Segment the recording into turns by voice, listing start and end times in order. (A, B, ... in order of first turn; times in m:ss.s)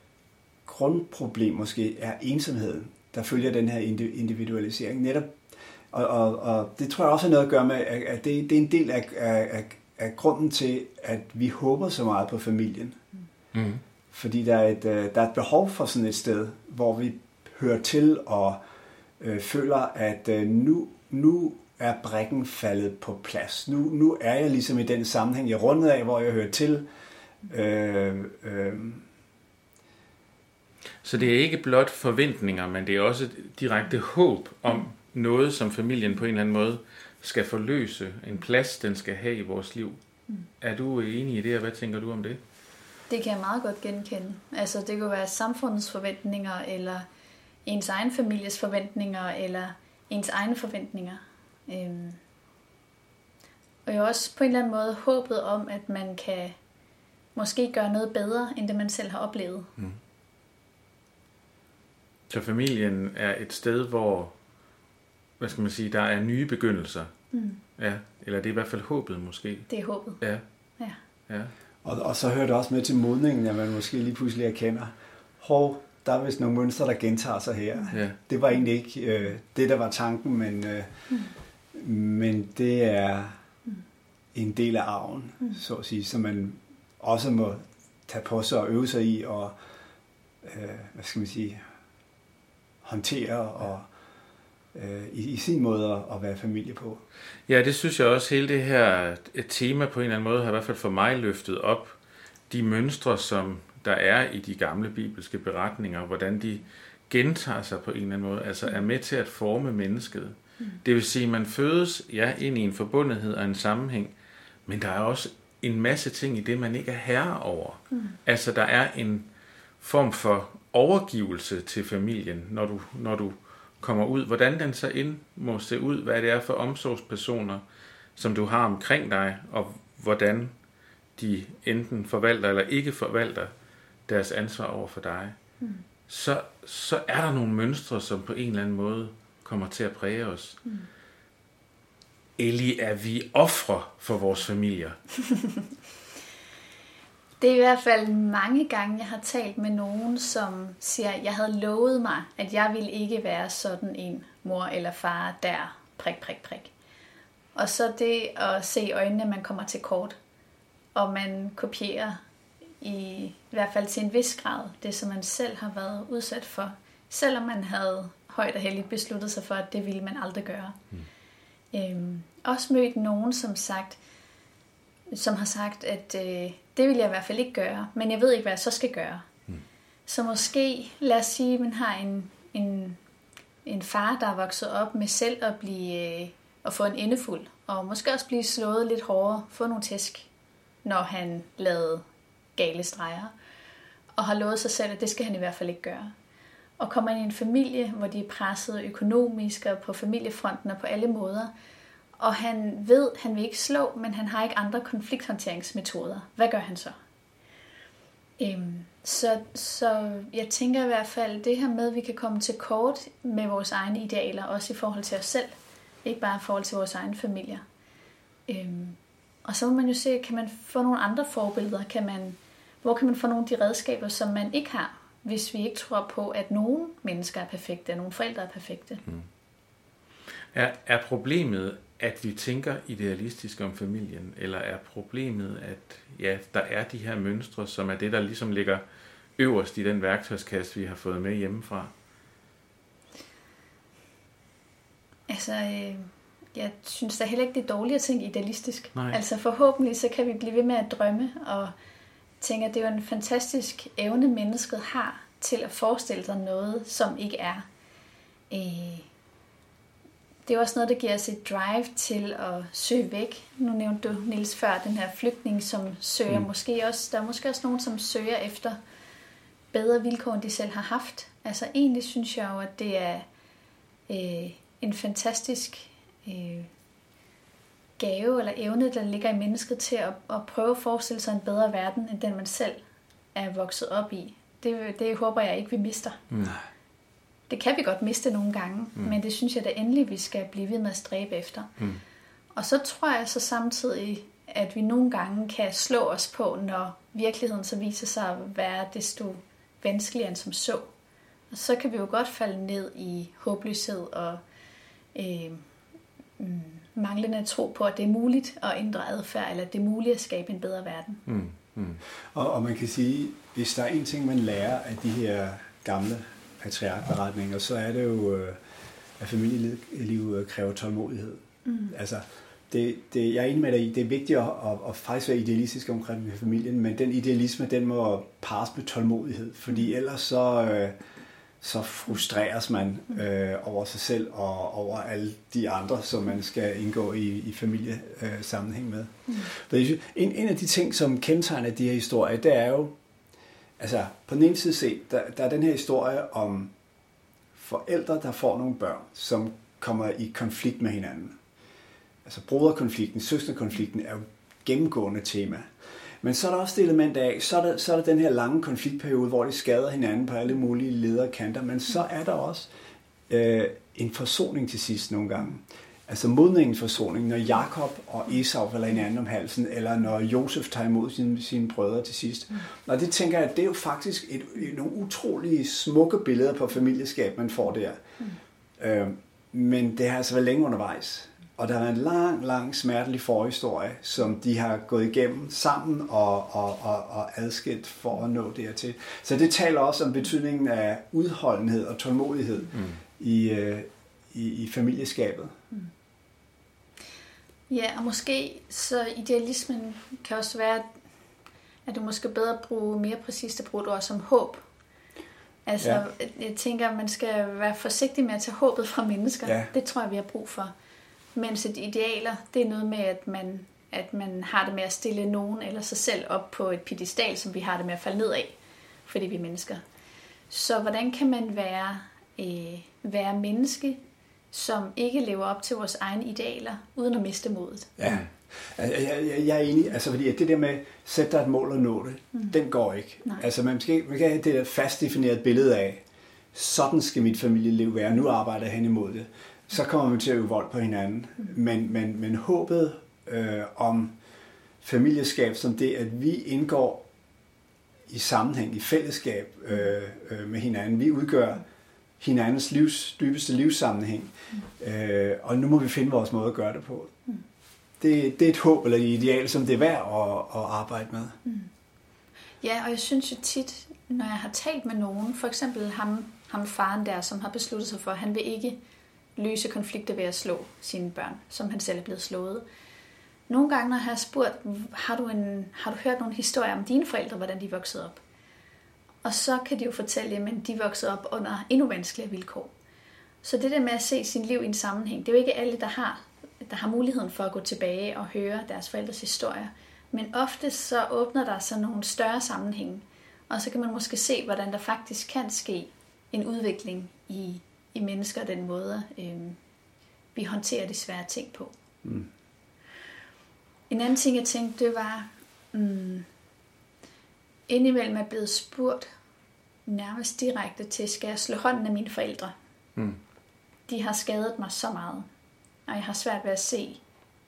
0:00.6-0:05.3 A
0:05.9-0:13.0 A
0:13.5-0:13.8 B
0:14.1-0:18.6 A
0:19.2-0:26.8 A
0:27.5-0:29.0 A
0:31.0-0:40.0 B
0:40.6-0:42.4 B
0:43.1-0:47.0 C
0:47.6-0:52.2 C
0:53.8-0:56.6 C
0:57.3-0:59.7 C
1:02.3-1:04.3 B
1:05.4-1:07.1 B
1:07.3-1:07.6 C
1:07.8-1:09.7 B
1:09.7-1:10.2 C
1:11.8-1:20.9 A
1:17.9-1:18.2 B
1:21.7-1:23.4 A
1:24.3-1:29.5 A
1:30.4-1:31.6 A
1:32.8-1:33.9 A
1:34.7-1:37.0 A
1:37.5-1:42.0 B
1:42.5-1:54.1 B
1:54.7-1:59.3 B
1:59.8-2:07.6 B
2:08.2-2:10.5 B
2:11.2-2:13.5 B
2:14.1-2:15.4 B
2:16.1-2:20.6 B
2:22.4-2:25.0 B
2:27.4-2:36.7 C
2:37.5-2:40.2 C
2:40.9-2:42.2 C
2:42.8-2:50.8 C
2:51.7-2:54.0 C
2:55.1-2:59.2 C
3:00.1-3:03.0 C
3:03.6-3:10.3 C
3:10.8-3:12.0 C
3:12.6-3:13.3 C
3:14.2-3:16.1 C
3:16.8-3:21.5 C
3:22.2-3:26.9 C
3:28.4-3:37.6 C
3:38.5-3:49.0 C
3:50.5-3:58.8 B
3:59.4-4:01.9 B
4:05.3-4:11.7 C
4:12.4-4:17.6 C
4:18.5-4:19.1 C
4:20.4-4:28.8 C
4:29.7-4:33.2 C
4:34.1-4:36.7 C
4:38.0-4:42.8 C
4:43.3-4:46.2 C
4:46.3-4:46.6 B
4:47.5-4:51.7 C
4:52.5-5:00.9 C
5:01.5-5:04.4 C
5:05.1-5:05.6 C
5:06.4-5:11.2 C
5:11.2-5:12.0 B
5:12.3-5:18.6 A
5:19.2-5:31.0 A
5:21.6-5:21.9 C
5:31.6-5:42.9 A
5:43.8-5:46.7 A
5:47.6-5:51.4 A
5:52.2-5:55.7 A
5:56.2-6:02.7 A
6:03.3-6:18.0 A
6:18.8-6:35.6 A
6:32.7-6:33.0 B
6:37.7-6:40.9 C
6:41.8-6:44.6 C
6:45.6-6:50.7 C
6:49.4-6:49.7 A
6:51.3-6:59.8 C
7:00.5-7:04.0 C
7:04.5-7:07.9 C
7:08.0-7:16.0 A
7:16.5-7:24.2 A
7:24.8-7:27.1 A
7:28.1-7:31.6 A
7:32.2-7:37.1 A
7:38.0-7:41.4 A
7:41.4-7:41.7 C
7:42.6-7:48.8 C
7:49.4-7:52.6 C
7:53.5-7:58.2 C
7:59.2-8:02.7 C
8:03.4-8:19.6 C
8:20.3-8:21.7 C
8:23.9-8:26.3 C
8:27.7-8:29.1 C
8:29.8-8:32.5 C
8:33.9-8:35.3 C
8:35.8-8:37.0 C